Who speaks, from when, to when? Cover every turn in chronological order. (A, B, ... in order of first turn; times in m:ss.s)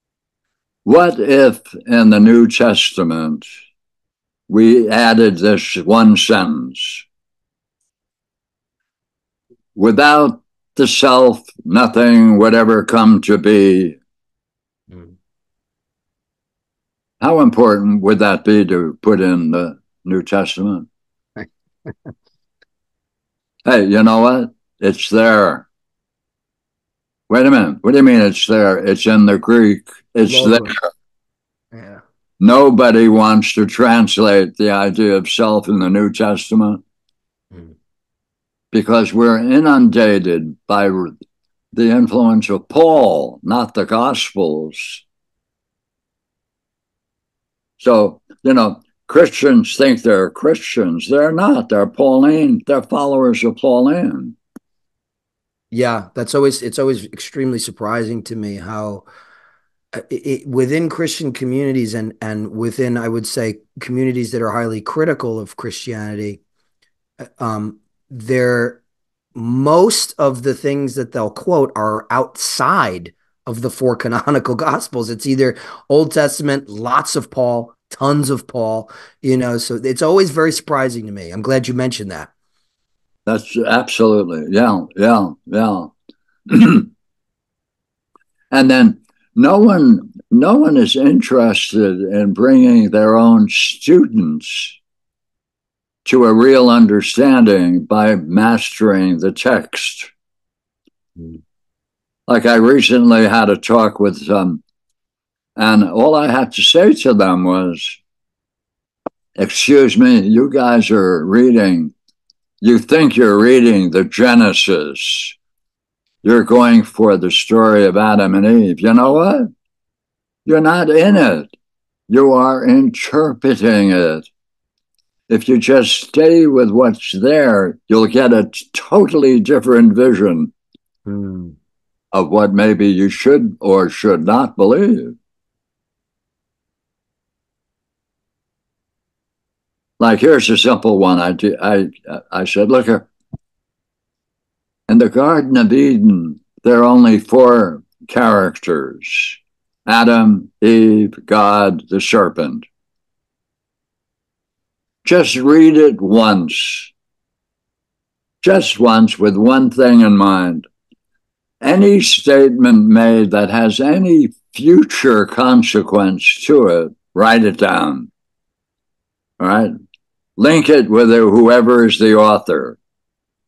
0:00.8-0:03.5 A
0:04.5-0:07.0 A
0:09.8-0:14.0 A
0:17.2-0:20.9 A
0:21.4-0:21.9 B
0:23.6-0:25.7 A
0:27.3-0:30.8 A
0:30.2-0:30.8 B
0:31.7-0:32.0 B
0:32.4-0:36.8 A
0:38.7-0:41.2 A
0:41.7-0:45.0 A
0:47.8-0:54.4 A
0:55.7-0:59.1 B
0:59.9-1:06.4 B
1:07.4-1:08.8 B
1:09.4-1:22.3 B
1:23.3-1:25.9 A
1:26.5-1:26.9 A
1:28.5-1:34.8 A
1:36.0-1:40.1 A
1:42.3-1:44.6 A
1:45.6-1:48.0 A
1:49.4-1:51.9 A
1:52.6-1:55.4 A
1:56.2-1:59.5 A
2:00.5-2:01.5 A
2:02.1-2:04.3 A
2:05.3-2:10.5 A
2:11.1-2:11.6 B
2:12.1-2:15.2 A
2:20.0-2:23.1 A
2:24.9-2:32.7 A
2:35.0-2:36.9 A
2:38.4-2:40.7 A
2:41.6-2:48.1 A
2:49.4-2:49.7 A
2:50.4-2:52.8 A